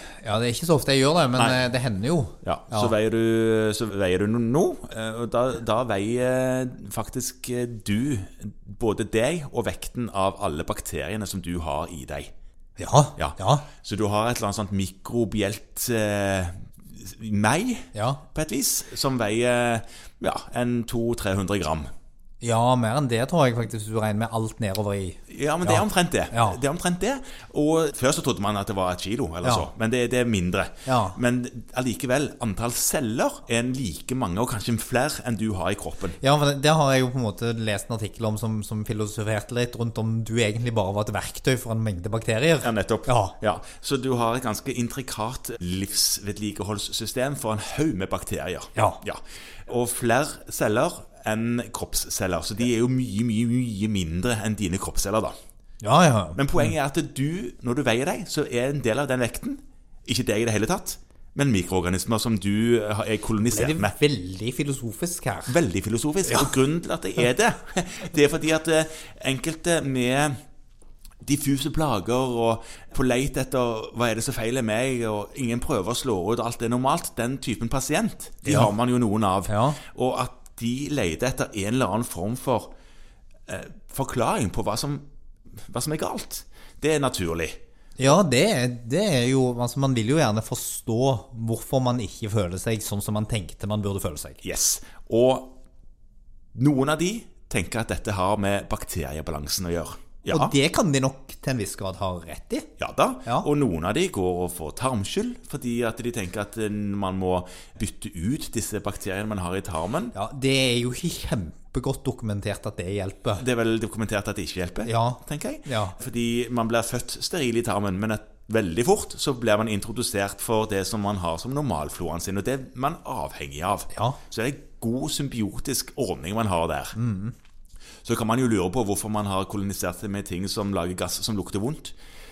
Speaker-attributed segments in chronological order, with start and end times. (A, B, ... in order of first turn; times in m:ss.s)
0:00.2-0:02.9 A
0:01.4-0:01.6 B
0:02.4-0:12.3 B
0:12.8-0:13.7 A
0:13.2-0:21.9 B
0:17.9-0:18.2 A
0:22.4-0:26.6 A
0:25.3-0:36.2 B
0:30.8-0:31.2 A
0:36.2-0:43.3 A
0:42.6-0:55.3 B
0:48.7-0:49.0 A
0:55.8-0:56.7 A
0:56.4-1:03.9 B
1:03.5-1:05.6 A
1:05.5-1:10.4 B
1:06.2-1:06.5 A
1:11.2-1:22.7 B
1:18.4-1:18.7 A
1:19.4-1:19.8 A
1:23.5-1:25.0 B
1:25.6-1:27.6 B
1:28.0-1:34.4 A
1:34.4-1:35.6 B
1:36.5-1:40.5 B
1:40.3-1:42.7 A
1:42.8-1:50.1 B
1:50.1-1:53.4 A
1:53.4-2:07.0 B
1:54.8-1:56.0 A
2:03.9-2:04.2 A
2:07.0-2:07.3 A
2:08.0-2:11.9 B